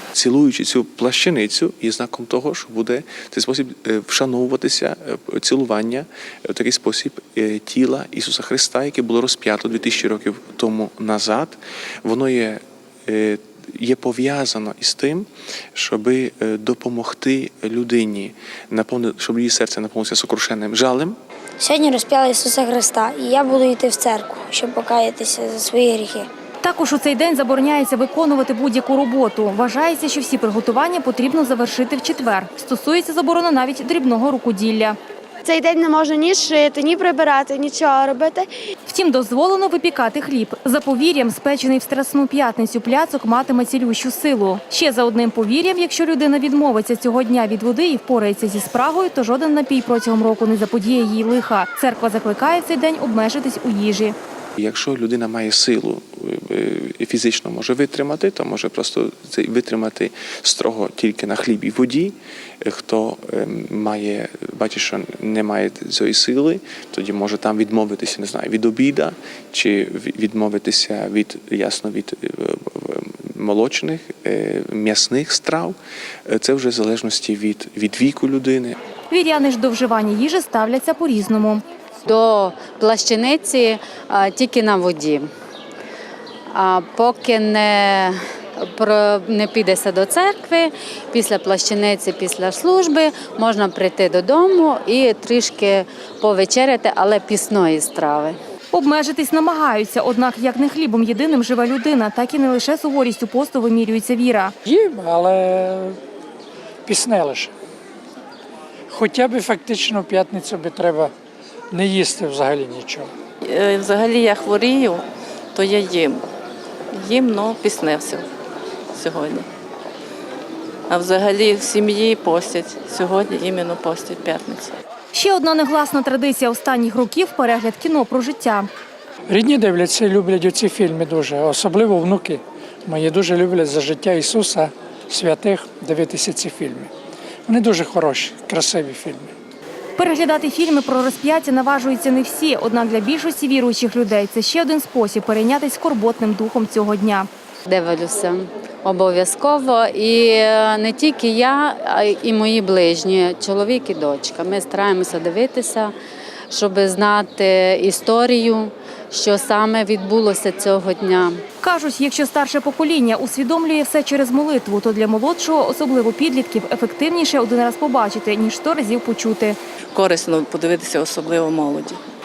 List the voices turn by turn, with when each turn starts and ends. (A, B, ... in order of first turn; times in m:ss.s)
0:00.1-0:21.2 A
0:21.6-0:26.3 B
0:26.6-0:35.0 C
0:35.4-0:38.5 D
0:38.9-0:54.2 C
0:54.6-1:15.8 A
1:16.3-1:18.8 A
1:19.1-1:21.6 C
1:22.0-1:25.3 E
1:26.5-1:38.4 E
1:38.7-1:44.6 C
1:44.7-1:46.0 F
1:46.9-1:47.5 F
1:48.9-1:51.1 F
1:51.7-1:53.1 F
1:53.4-1:56.2 G
1:56.9-1:58.3 G
1:59.0-1:59.5 G
2:00.9-2:04.8 G
2:05.1-2:08.7 C
2:09.3-2:16.9 F
2:17.5-2:19.3 F
2:20.0-2:27.3 C
2:27.7-2:35.9 E
2:36.5-2:41.4 E
2:41.6-2:49.6 C
2:49.9-2:52.0 G